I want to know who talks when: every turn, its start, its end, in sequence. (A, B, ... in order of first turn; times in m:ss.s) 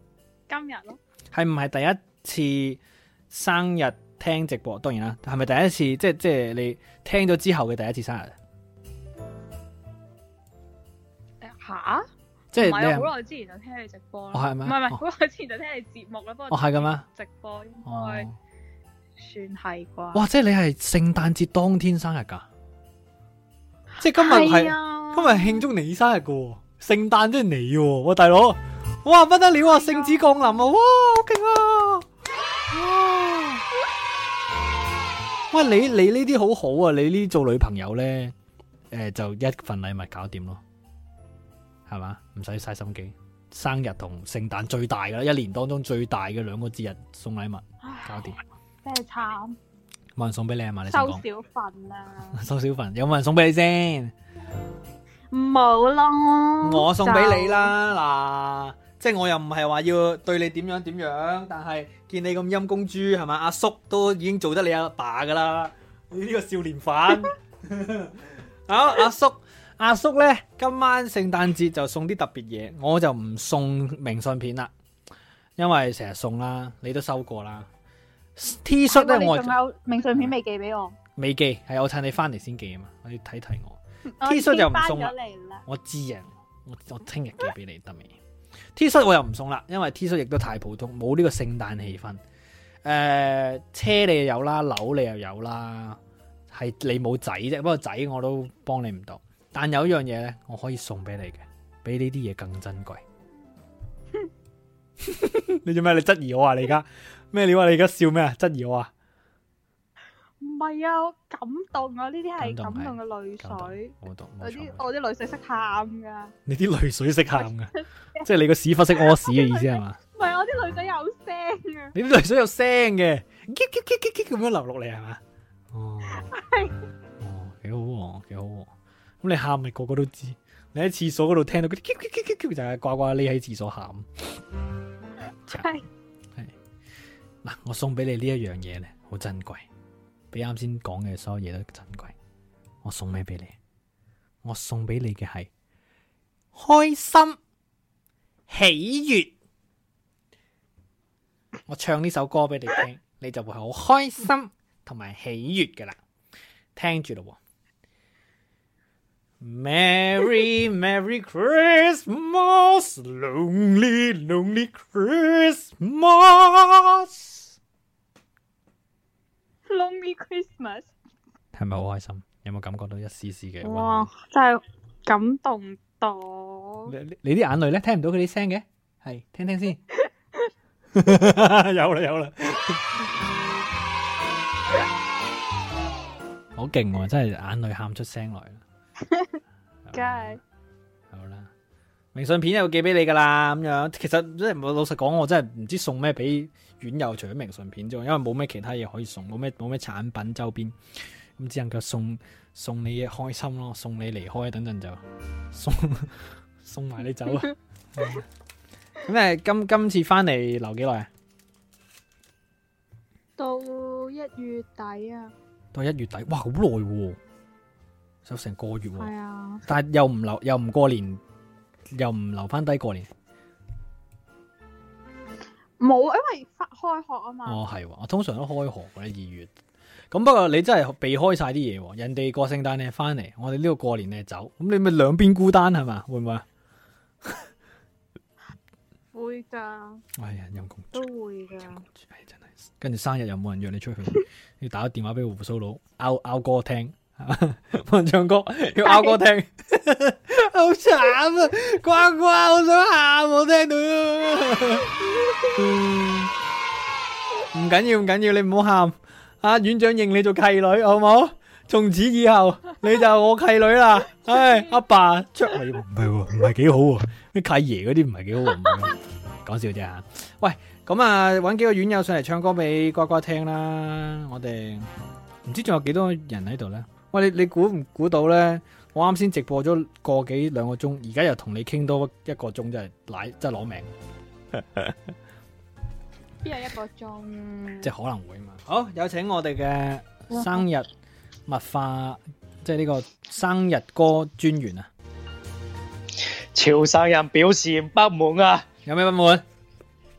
0:00.5-0:01.0 A
0:01.3-0:08.4 B
0:11.4-0:18.3 A
0:12.5-0:13.1 B
0:14.3-0:15.0 B
0:16.5-0:17.0 B
0:17.8-0:18.3 B
0:19.2-0:20.2 A
0:20.1-0:22.5 B
0:24.0-0:32.1 B
0:24.1-0:25.7 A
0:29.6-0:30.3 A
0:32.7-0:33.6 B
0:35.5-0:38.3 B
0:38.9-0:40.6 B
0:41.9-0:48.4 B
0:47.8-0:48.3 A
0:48.8-0:49.6 A
0:50.2-0:51.2 B
0:50.9-0:52.4 A
0:52.3-0:54.1 B
0:55.3-0:57.7 A
0:56.6-1:08.2 B
1:08.7-1:14.7 B
1:15.6-1:17.7 B
1:18.4-1:19.6 B
1:18.9-1:21.0 A
1:21.2-1:25.1 B
1:24.2-1:25.6 A
1:25.7-1:28.2 B
1:28.8-1:32.2 B
1:32.8-1:36.0 B
1:36.5-1:43.0 B
1:45.0-1:48.9 B
1:50.4-1:56.3 A
1:52.4-1:54.8 B
1:56.5-2:00.0 B
1:57.4-1:58.2 A
1:59.0-2:01.9 A
2:01.9-2:05.2 B
2:05.7-2:06.4 B
2:06.2-2:06.7 A
2:07.2-2:08.7 B
2:09.2-2:14.1 B
2:15.5-2:15.8 A
2:17.4-2:19.7 B
2:20.3-2:22.2 B
2:22.8-2:23.6 B
2:24.4-2:25.5 B
2:26.5-2:27.4 B
2:28.5-2:29.3 B
2:31.7-2:36.0 B
2:36.8-2:37.4 B
2:39.4-2:47.5 B
2:49.7-2:50.9 A
2:51.5-2:54.1 B
2:53.6-2:56.9 A
2:56.9-2:59.8 B
3:00.0-3:00.5 A
3:01.0-3:03.0 B
3:06.6-3:08.6 B
3:09.9-3:10.4 B
3:09.9-3:10.4 A
3:11.1-3:11.5 B
3:12.1-3:20.8 B
3:21.4-3:25.0 B
3:25.5-3:28.2 B
3:29.0-3:31.1 B
3:33.4-3:35.3 A
3:35.7-3:37.2 B
3:38.2-3:39.1 B
3:39.0-3:39.6 A
3:39.7-3:41.2 B
3:41.9-3:43.1 B
3:45.8-3:47.6 A
3:47.5-3:49.5 B
3:50.1-3:56.4 B
3:59.1-4:00.0 A
4:00.2-4:01.1 B
4:00.9-4:01.8 A
4:01.8-4:15.0 B
4:08.8-4:09.2 A
4:15.5-4:16.3 B
4:17.5-4:34.9 B
4:35.4-4:43.9 B
4:46.4-4:47.9 A
4:47.8-4:50.9 B
4:51.5-4:54.9 B
4:56.6-4:58.6 C
4:58.9-4:59.4 B